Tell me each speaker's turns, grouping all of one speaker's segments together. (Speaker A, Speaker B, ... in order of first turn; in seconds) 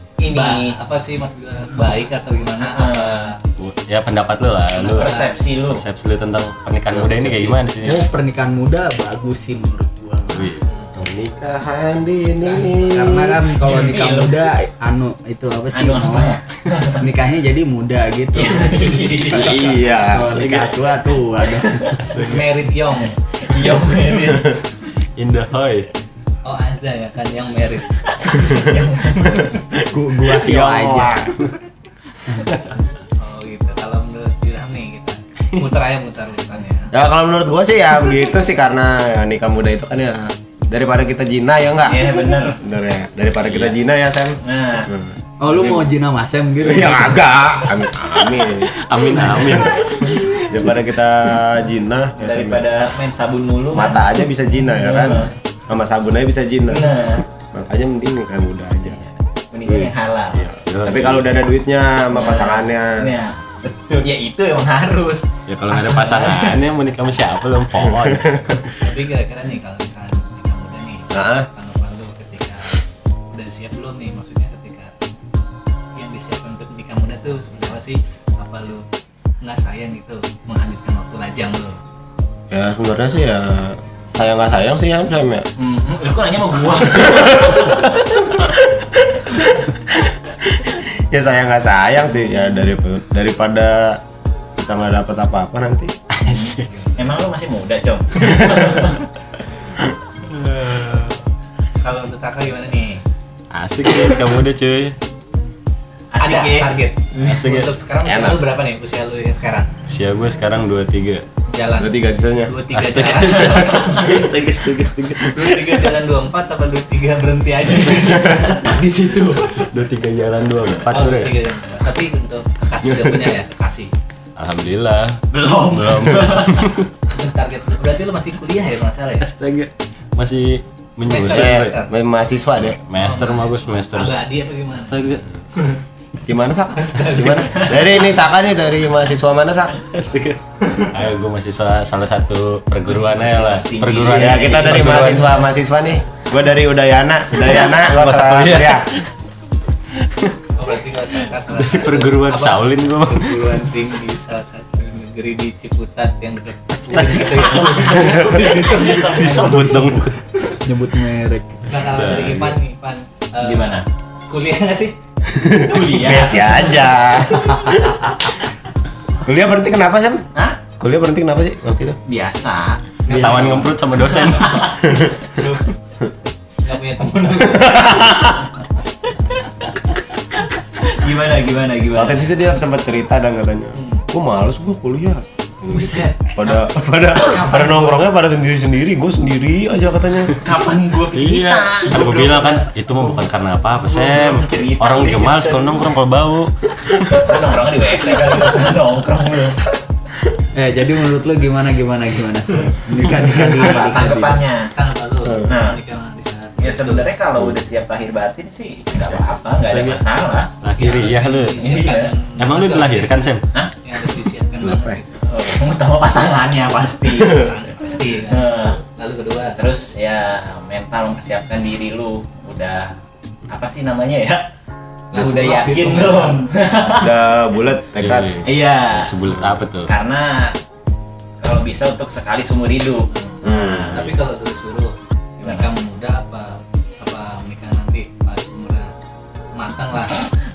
Speaker A: 0.2-0.8, 2.6-3.3, 4.8-5.8, 13.4-14.3, 15.7-17.0, 18.3-19.8, 21.6-22.0, 23.4-24.5, 28.2-29.5, 41.8-42.6, 43.4-43.7, 44.4-44.9, 52.2-54.2, 54.8-55.3, 56.7-57.2, 58.8-60.5, 62.1-66.5, 85.6-87.8, 96.2-99.0, 106.1-106.8, 125.3-126.7, 142.8-145.3, 156.9-160.1, 163.4-163.8, 165.6-166.9, 172.1-172.8, 174.2-174.7, 180.8-182.3, 185.7-188.1, 190.4-193.2, 193.9-195.9, 197.2-199.6, 203.3-204.7, 205.4-205.8, 206.6-210.5, 211.6-212.1, 215.2-217.5, 218.3-218.8, 219.6-222.9, 223.5-224.4, 225.1-227.1, 228.4-229.1, 229.8-230.5, 231.4-234.1, 235.4-235.7
Speaker B: 0.3-3.4, 4.8-5.3, 13.6-14.2, 22.2-23.2, 26.4-28.4, 33.2-36.9, 68.8-74.9, 75.9-78.8, 79.4-81.8, 96.6-97.1, 101.8-103.0, 106.2-109.7, 111.5-113.9, 115.3-118.6, 120.9-123.9, 127.1-129.3, 131.0-131.9, 133.0-135.0, 136.7-137.7, 150.6-159.4, 161.7-164.9, 173.1-174.7, 176.6-178.1, 183.7-184.0, 203.0-207.1, 210.8-213.2, 213.8-215.2, 217.2-219.6, 225.1-226.4, 233.9-238.9, 239.6-240.2
Speaker C: 3.6-5.2, 5.7-8.0, 10.3-10.7, 20.2-20.7, 22.0-22.5, 25.2-25.9, 48.7-50.3, 59.6-59.9, 60.6-61.3, 65.5-68.7, 96.2-96.7, 100.2-101.2, 103.5-105.0, 107.1-107.7, 109.9-111.2, 112.7-115.9, 117.7-121.4, 124.4-126.9, 129.2-131.7, 132.5-134.2, 134.7-135.2, 139.8-145.3, 147.4-149.1, 149.9-150.4, 151.5-153.6, 156.9-157.3, 159.1-160.2, 161.8-162.6, 173.1-174.7, 191.1-197.3, 209.6-210.0, 210.6-211.6, 212.4-213.5, 228.0-229.9
Speaker D: 6.9-7.6, 10.9-13.4, 19.3-20.3, 30.3-31.3, 36.9-45.9, 46.6-48.7, 49.8-52.6, 53.7-59.0, 60.3-63.1, 67.8-68.4, 71.1-71.5, 82.5-85.5, 86.9-94.0, 94.6-95.9, 98.2-98.6, 108.0-108.4, 111.8-112.6, 122.9-123.3, 131.1-132.8, 136.2-139.8, 144.1-148.9, 165.3-168.4, 169.2-170.2, 170.8-172.0, 174.8-175.4, 177.4-178.4, 181.9-190.4, 214.6-215.0, 227.0-228.3, 233.4-234.1
Speaker E: 7.8-10.5, 12.8-16.4, 16.9-19.4, 20.0-21.8, 29.9-31.3, 45.4-47.3, 160.6-161.7, 173.1-173.5, 200.5-204.4